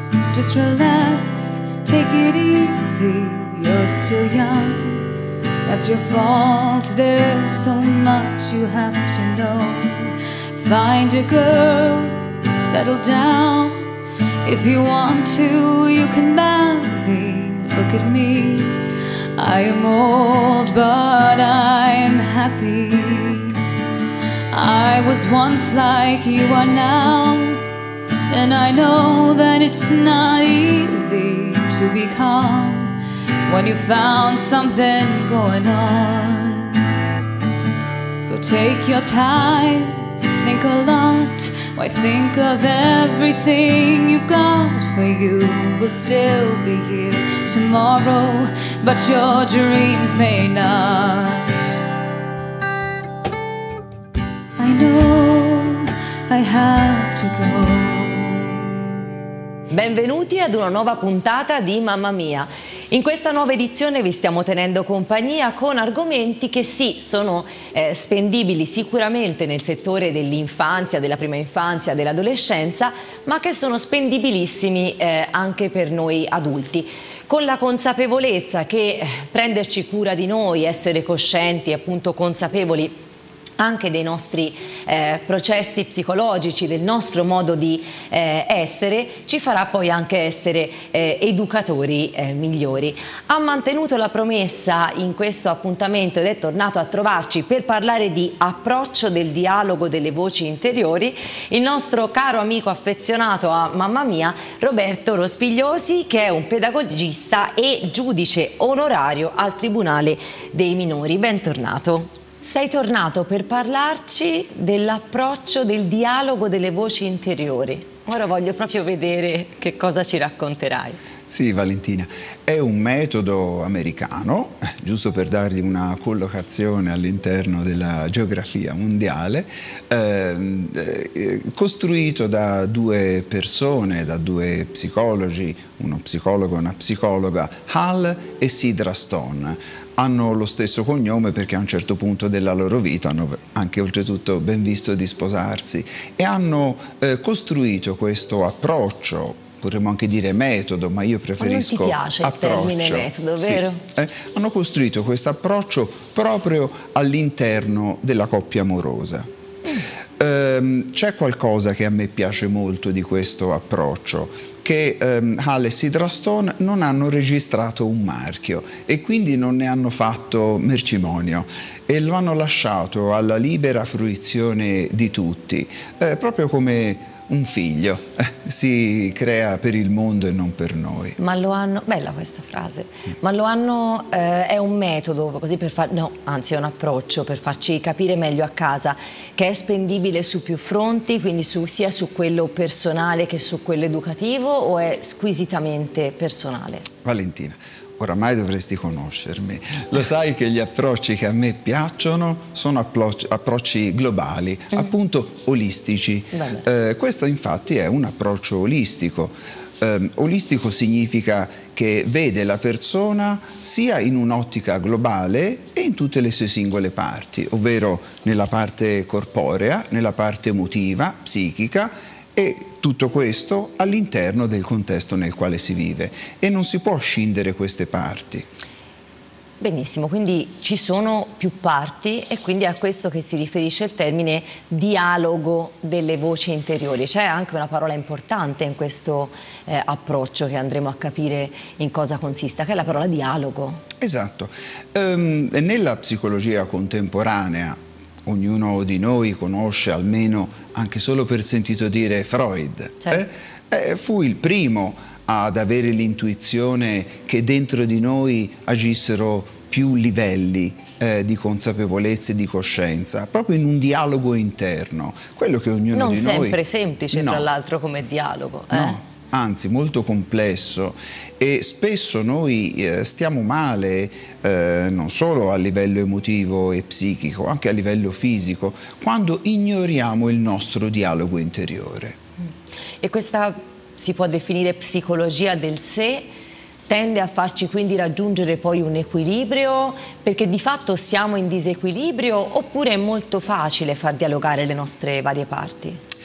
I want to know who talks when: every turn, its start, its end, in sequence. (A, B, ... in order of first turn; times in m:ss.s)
0:00.3-0:05.1 A
0:05.6-0:13.9 A
0:14.4-0:18.8 A
0:19.4-0:23.6 A
0:24.5-0:27.6 A
0:28.3-0:33.0 A
0:33.5-0:36.8 A
0:38.2-0:51.8 A
0:54.6-0:58.6 A
0:59.7-1:23.0 B
1:23.6-2:01.0 B
2:01.3-2:39.3 C
2:31.4-2:33.8 B
2:40.2-3:01.2 C
3:01.2-3:16.9 B
3:17.0-3:48.5 C
3:26.3-3:26.6 B
3:49.6-4:03.8 B
4:04.0-4:26.6 C
4:25.9-4:29.0 B
4:27.1-4:27.5 C
4:28.7-4:42.2 C
4:43.0-4:46.3 B
4:46.9-4:56.0 B